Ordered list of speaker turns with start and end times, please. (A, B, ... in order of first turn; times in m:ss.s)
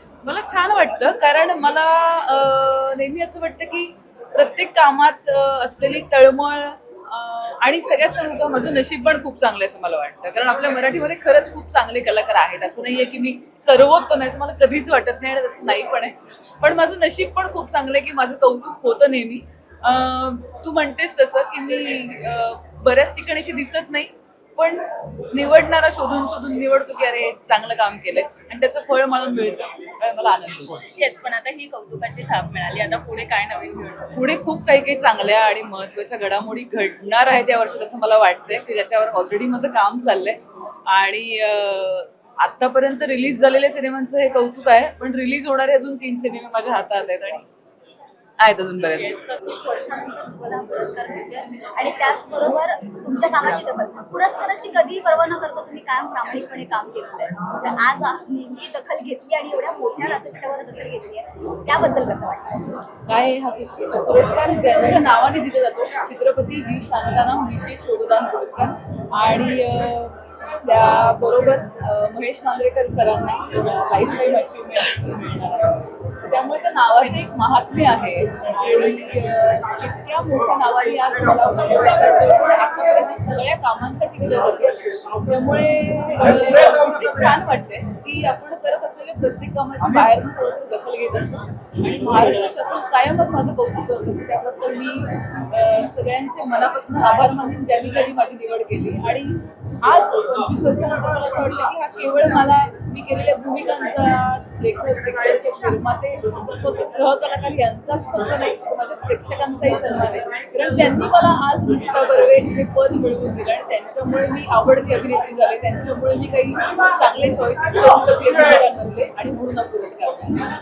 0:00.2-0:30.8 A
0:30.9-0:34.1 B
0:34.1-0:47.5 A
0:48.4-0:49.1 A
0:49.0-0:49.4 B
0:49.4-1:02.6 C
1:03.1-2:00.4 A